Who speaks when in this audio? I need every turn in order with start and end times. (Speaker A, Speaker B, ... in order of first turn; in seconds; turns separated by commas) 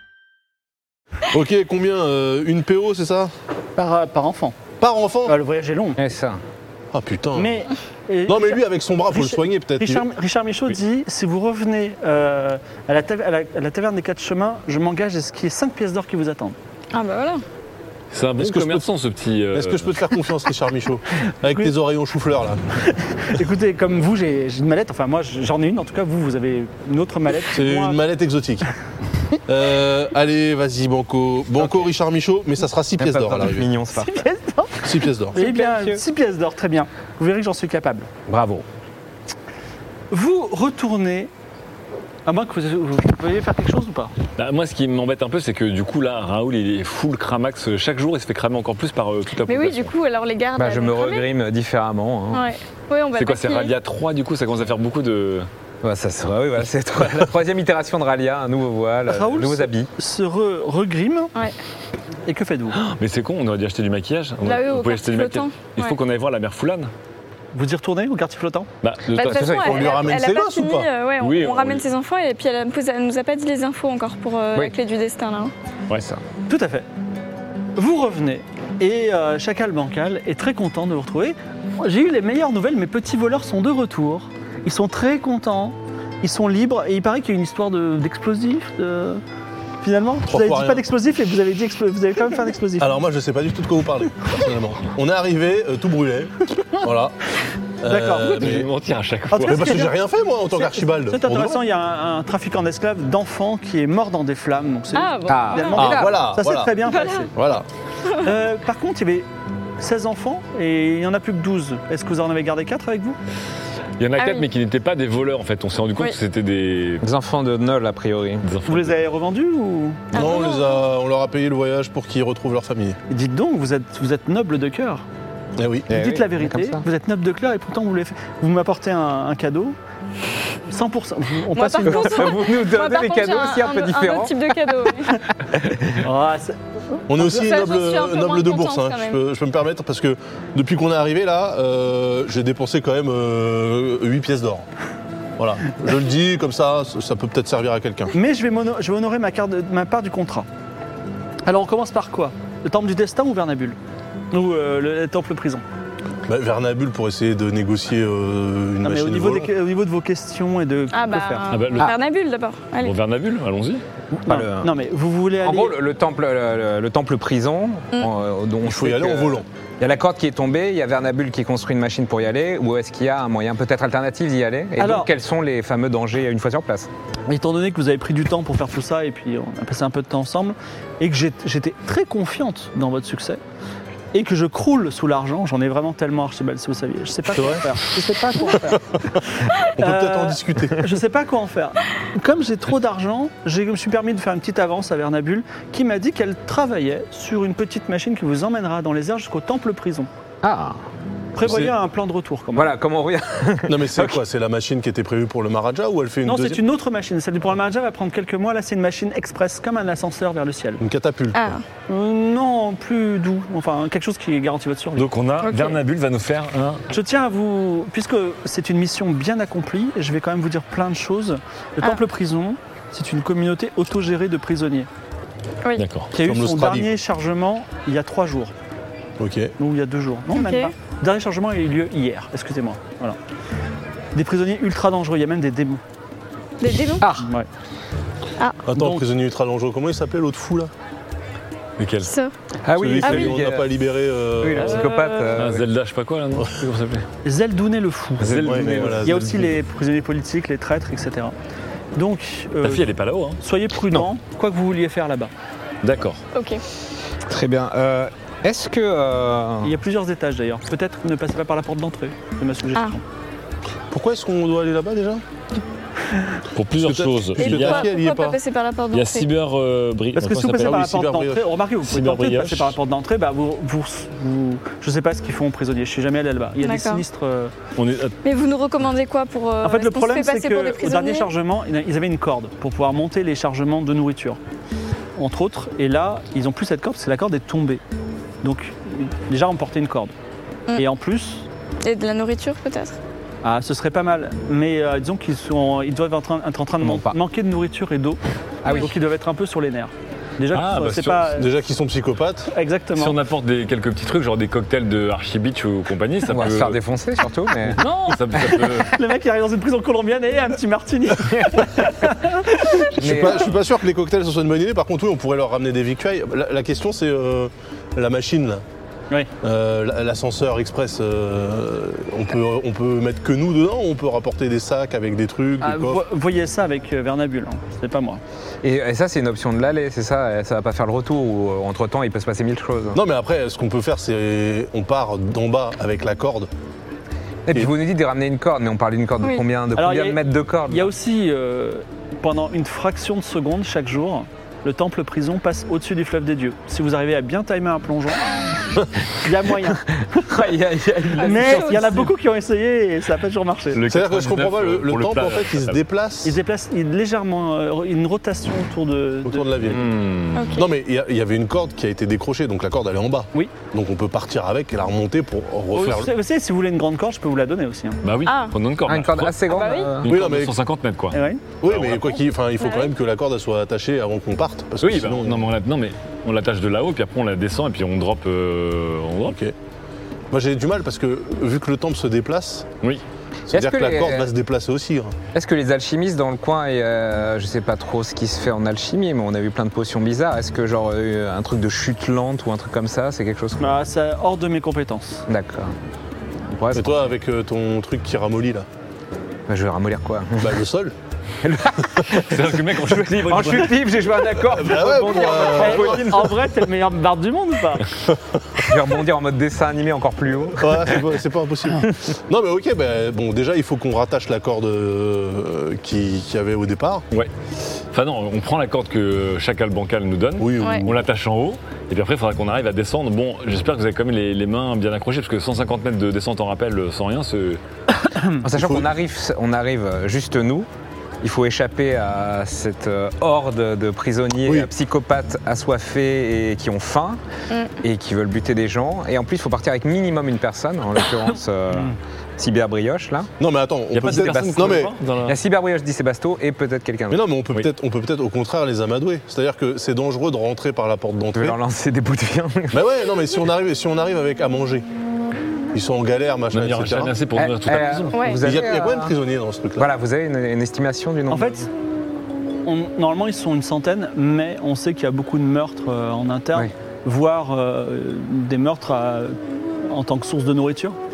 Speaker A: 1.3-3.3, Speaker B: 3.8-4.6, Speaker A: 4.8-5.4, Speaker B: 5.3-6.0, Speaker C: 6.0-6.4, Speaker A: 6.9-7.6, Speaker B: 7.3-16.6, Speaker A: 8.3-10.1, Speaker D: 16.9-17.4, Speaker E: 18.1-20.1, Speaker A: 18.4-18.9, Speaker A: 19.5-22.6, Speaker B: 22.9-28.0, Speaker A: 27.5-28.7, Speaker A: 29.5-33.7, Speaker C: 33.0-34.2, Speaker B: 33.9-38.1, Speaker A: 34.8-35.4, Speaker C: 35.4-36.0, Speaker C: 38.3-38.7, Speaker B: 40.1-41.3, Speaker B: 42.3-44.1, Speaker E: 44.4-50.0, Speaker D: 49.5-51.3, Speaker C: 50.6-52.5, Speaker D: 52.3-53.7, Speaker E: 53.2-55.5, Speaker C: 55.8-59.9, Speaker B: 59.1-61.3, Speaker B: 62.3-62.8, Speaker E: 62.8-66.9, Speaker D: 64.4-66.0, Speaker B: 67.5-68.7, Speaker E: 68.8-69.9, Speaker D: 69.1-75.5, Speaker C: 69.2-69.8, Speaker A: 69.5-70.9, Speaker E: 71.2-71.8, Speaker C: 75.9-76.2, Speaker B: 76.5-76.9, Speaker B: 77.8-89.2, Speaker B: 89.8-92.9, Speaker A: 90.3-90.8, Speaker A: 92.8-97.2, Speaker A: 97.8-98.7, Speaker B: 97.8-98.3, Speaker E: 98.2-99.8, Speaker B: 99.3-100.0, Speaker A: 99.5-101.6, Speaker B: 100.6-107.3, Speaker D: 104.9-106.0, Speaker C: 105.3-106.4, Speaker A: 105.8-107.7, Speaker D: 106.9-107.3, Speaker D: 108.0-108.3, Speaker B: 108.2-109.3, Speaker B: 109.8-113.2, Speaker E: 114.0-117.0, Speaker D: 114.2-114.5, Speaker C: 117.0-118.5, Speaker E: 118.4-119.0, Speaker B: 118.7-120.2, Speaker D: 120.1-120.8, Speaker A: 120.1-123.0, Speaker B: 123.1-125.1, Speaker A: 125.6-125.9, Speaker C: 125.9-126.8, Speaker B: 125.9-129.8, Speaker B: 130.7-132.4, Speaker D: 131.5-135.3, Speaker C: 131.9-134.9, Speaker C: 135.5-136.0, Speaker B: 136.0-137.0, Speaker A: 137.1-144.7, Speaker D: 137.2-139.2, Speaker A: 145.4-148.1, Speaker B: 148.1-150.5, Speaker B: 151.5-153.8, Speaker B: 154.3-155.6, Speaker A: 156.3-159.5, Speaker B: 158.8-161.5, Speaker D: 160.9-162.9, Speaker E: 161.5-162.0, Speaker E: 162.8-163.8, Speaker B: 164.2-165.8, Speaker C: 164.3-164.7, Speaker C: 165.4-176.9, Speaker A: 168.6-169.5, Speaker B: 174.8-175.1, Speaker B: 177.3-183.4, Speaker B: 184.1-200.1, Speaker A: 187.3-187.6, Speaker A: 189.8-190.9, Speaker C: 200.4-200.8, Speaker B: 201.3-202.7, Speaker A: 201.4-201.7, Speaker C: 202.6-204.2, Speaker A: 203.7-206.6, Speaker B: 206.2-210.8, Speaker A: 210.8-211.6, Speaker D: 211.3-211.6, Speaker B: 211.9-215.1, Speaker E: 215.0-216.8, Speaker D: 215.4-215.8, Speaker B: 216.9-224.9, Speaker E: 225.8-226.1, Speaker B: 226.1-228.5, Speaker A: 226.2-226.9, Speaker A: 229.2-229.6, Speaker B: 229.6-233.2, Speaker D: 230.3-230.7, Speaker B: 234.2-235.8, Speaker D: 236.6-237.1, Speaker C: 237.0-237.3, Speaker B: 237.2-237.5, Speaker A: 238.7-240.7, Speaker B: 238.7-239.1, Speaker E: 241.8-242.1, Speaker D: 242.0-242.3, Speaker C: 242.7-243.7, Speaker A: 242.7-244.9, Speaker D: 243.0-243.3, Speaker C: 244.4-245.7, Speaker D: 244.8-245.3, Speaker E: 245.3-247.1, Speaker B: 247.2-248.5, Speaker E: 248.2-249.1, Speaker C: 248.2-249.0, Speaker A: 248.4-249.6, Speaker B: 249.0-251.3, Speaker B: 252.0-252.9, Speaker E: 252.6-253.4, Speaker B: 253.4-255.3, Speaker E: 255.8-256.2, Speaker D: 256.3-256.6, Speaker C: 257.3-259.8, Speaker B: 259.6-263.0, Speaker A: 263.9-265.2, Speaker E: 266.5-267.9, Speaker A: 266.8-268.4, Speaker D: 267.4-269.3, Speaker E: 268.9-270.9, Speaker B: 270.2-277.5, Speaker A: 270.6-271.4, Speaker E: 271.8-272.8, Speaker D: 276.6-277.0, Speaker E: 277.8-278.2, Speaker D: 278.2-281.3, Speaker B: 279.6-284.4, Speaker B: 285.2-287.8, Speaker B: 288.4-290.1, Speaker B: 290.8-291.5, Speaker D: 291.8-293.0, Speaker B: 293.4-298.2, Speaker C: 296.8-297.2, Speaker C: 298.6-298.9, Speaker B: 298.7-301.5, Speaker E: 300.5-301.4, Speaker A: 301.3-302.5, Speaker B: 302.5-303.2, Speaker E: 302.9-306.8, Speaker C: 306.3-307.9, Speaker E: 307.7-308.9, Speaker B: 308.4-312.9, Speaker C: 311.4-311.6, Speaker A: 312.9-318.6, Speaker C: 313.0-313.5, Speaker A: 319.4-326.0, Speaker B: 325.6-328.2, Speaker C: 328.6-333.0, Speaker A: 332.9-336.5, Speaker C: 337.5-340.9, Speaker B: 339.8-348.3, Speaker B: 349.2-350.2, Speaker C: 349.7-352.0, Speaker B: 351.2-353.8, Speaker D: 351.2-352.0, Speaker E: 353.7-355.8, Speaker A: 353.9-356.4, Speaker B: 356.2-359.8, Speaker A: 359.2-360.0, Speaker E: 359.7-360.6, Speaker D: 360.3-360.7, Speaker A: 360.6-366.1, Speaker B: 365.7-368.0, Speaker E: 368.0-372.2, Speaker D: 368.2-368.6, Speaker C: 368.9-370.1, Speaker D: 369.5-370.0, Speaker A: 370.1-370.5, Speaker B: 371.1-371.4, Speaker A: 371.6-375.5, Speaker D: 372.6-372.9, Speaker E: 374.8-379.4, Speaker A: 379.3-379.5, Speaker A: 380.3-382.7, Speaker C: 383.5-384.3, Speaker A: 383.5-385.2, Speaker C: 385.3-393.8, Speaker B: 393.6-395.2, Speaker C: 395.3-395.7, Speaker C: 396.5-397.1, Speaker A: 396.7-398.7, Speaker C: 399.5-400.6, Speaker A: 400.4-400.9, Speaker C: 401.4-406.4, Speaker E: 402.1-403.9, Speaker A: 404.5-406.3, Speaker B: 405.3-407.9, Speaker A: 408.1-408.7, Speaker C: 408.6-411.0, Speaker A: 410.6-417.1, Speaker E: 417.9-427.6, Speaker A: 420.4-421.0, Speaker D: 420.6-420.9, Speaker C: 428.4-430.7, Speaker A: 428.5-428.9, Speaker C: 431.2-437.2, Speaker A: 434.4-434.7, Speaker C: 437.8-443.3, Speaker A: 443.4-444.9, Speaker E: 443.9-445.4, Speaker C: 444.0-447.2, Speaker A: 447.1-451.6, Speaker C: 451.4-452.9, Speaker A: 452.7-454.9, Speaker A: 455.7-457.1, Speaker E: 456.5-458.2, Speaker C: 457.4-459.1, Speaker D: 458.1-458.5, Speaker A: 458.4-459.9, Speaker C: 459.8-461.7, Speaker B: 461.3-461.7, Speaker B: 462.7-471.0